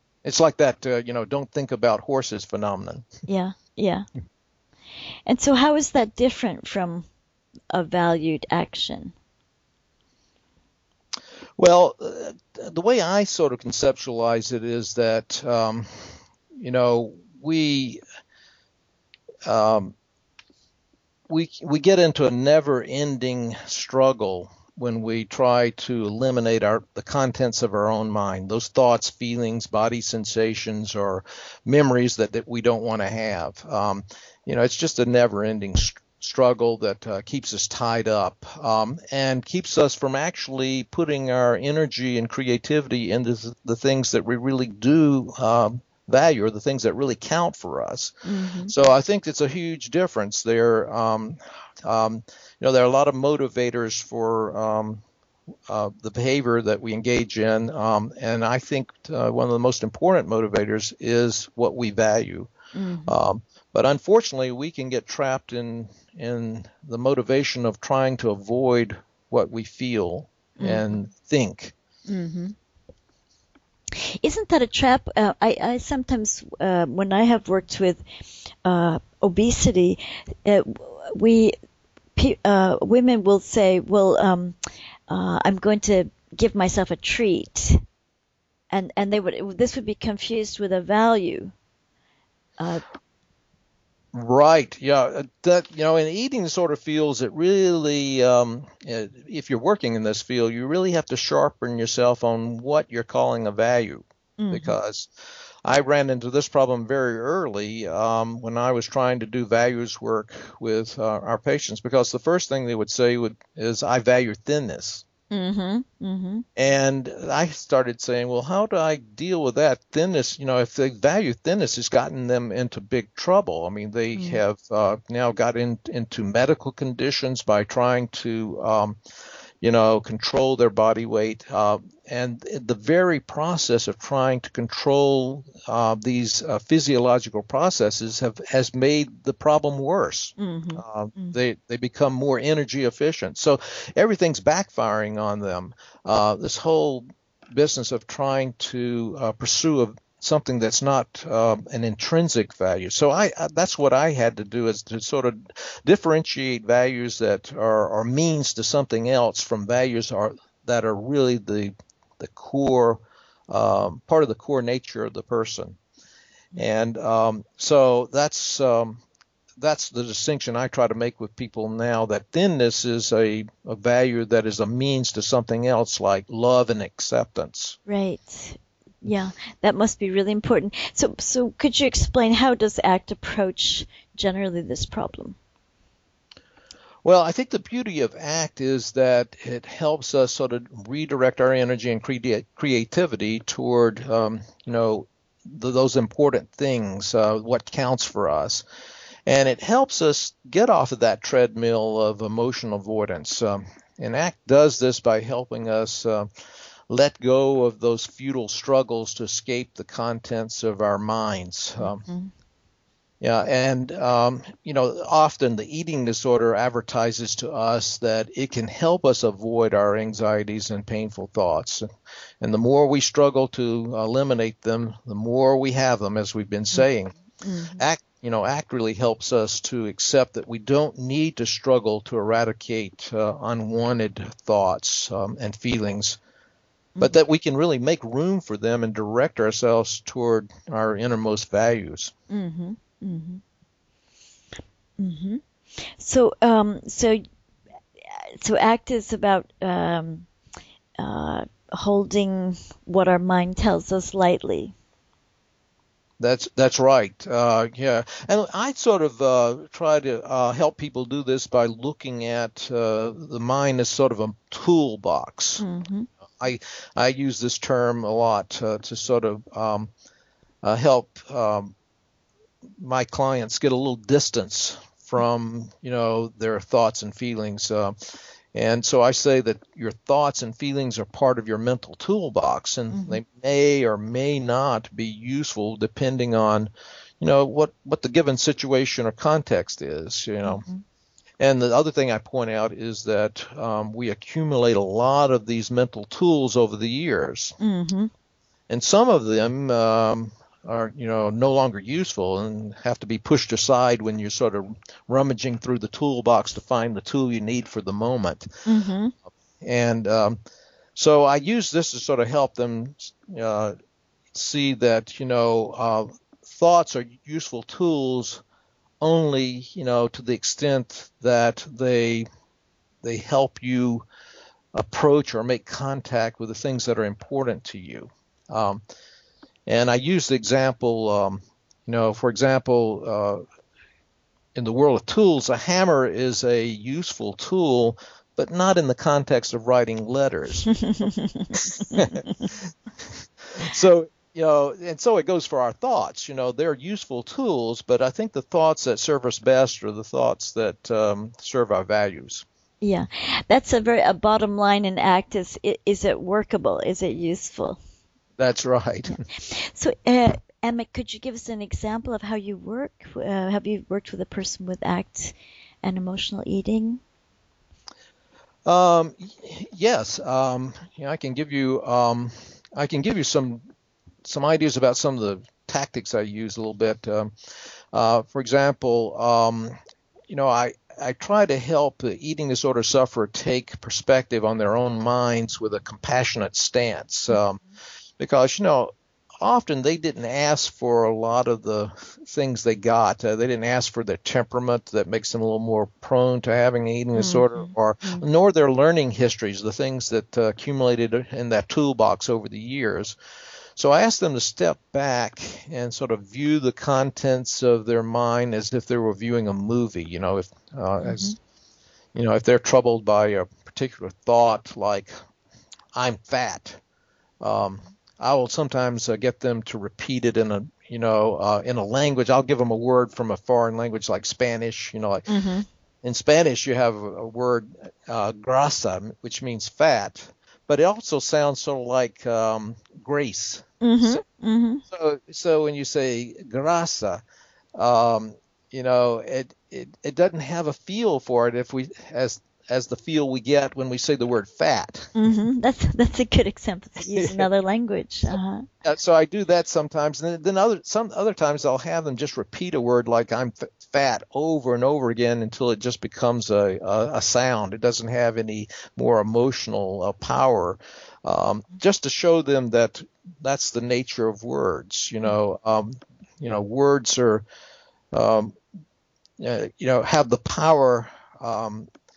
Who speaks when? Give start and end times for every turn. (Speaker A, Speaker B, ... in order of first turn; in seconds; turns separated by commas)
Speaker A: 0.2-3.1, Speaker B: 3.3-4.0, Speaker B: 5.3-7.1, Speaker B: 7.7-9.1, Speaker A: 11.6-18.0, Speaker A: 19.4-19.9, Speaker A: 21.3-48.1, Speaker B: 48.2-48.7, Speaker A: 48.7-55.0, Speaker A: 55.7-62.5, Speaker B: 62.7-63.2, Speaker A: 63.1-71.7, Speaker B: 70.6-70.9, Speaker B: 72.1-72.5, Speaker B: 74.0-78.0, Speaker B: 78.6-81.6, Speaker B: 82.2-84.6, Speaker B: 85.1-87.8, Speaker B: 88.7-91.5, Speaker B: 92.6-92.8, Speaker A: 94.1-105.1, Speaker B: 104.4-104.7, Speaker A: 105.7-115.0, Speaker B: 115.3-116.5, Speaker A: 116.6-129.0, Speaker B: 124.2-124.4, Speaker A: 129.6-165.8, Speaker B: 140.4-141.4, Speaker A: 166.5-169.0, Speaker A: 169.6-177.8, Speaker B: 177.9-185.4, Speaker A: 187.0-198.6, Speaker A: 199.3-206.3, Speaker A: 206.9-212.1, Speaker B: 211.8-212.3, Speaker A: 213.2-221.9, Speaker A: 222.4-227.2, Speaker B: 227.4-227.8, Speaker A: 227.8-236.2, Speaker A: 237.0-242.1, Speaker B: 242.3-243.4, Speaker B: 245.0-247.2, Speaker B: 248.1-250.3, Speaker B: 251.0-254.8, Speaker A: 256.2-265.6, Speaker B: 265.6-266.1, Speaker A: 266.4-269.9, Speaker A: 270.6-271.7, Speaker A: 272.8-290.7, Speaker B: 282.9-283.2, Speaker B: 290.4-290.8, Speaker A: 291.4-297.6, Speaker B: 297.6-298.1, Speaker A: 298.7-308.5, Speaker B: 308.6-309.1, Speaker A: 309.6-310.4, Speaker A: 310.9-313.8, Speaker A: 314.3-318.4, Speaker A: 319.0-322.3, Speaker A: 323.0-324.1, Speaker A: 324.7-328.8, Speaker A: 329.7-333.4, Speaker A: 334.6-340.7, Speaker B: 340.9-342.2, Speaker A: 341.5-352.4, Speaker B: 352.8-357.8, Speaker A: 358.4-359.2, Speaker B: 359.2-367.0, Speaker A: 368.6-373.6, Speaker A: 374.2-377.3, Speaker A: 377.9-379.8, Speaker A: 380.3-387.6, Speaker A: 388.2-403.2, Speaker B: 397.2-398.2, Speaker A: 403.8-411.3, Speaker B: 411.0-411.4, Speaker A: 412.1-415.1, Speaker A: 415.9-416.8, Speaker A: 417.4-425.3, Speaker B: 425.3-425.7, Speaker A: 426.0-434.2, Speaker B: 433.8-434.8, Speaker A: 434.9-437.2, Speaker A: 437.8-445.1, Speaker B: 445.1-448.7, Speaker A: 447.0-447.5, Speaker A: 448.8-467.4, Speaker A: 468.1-468.6, Speaker A: 469.4-471.9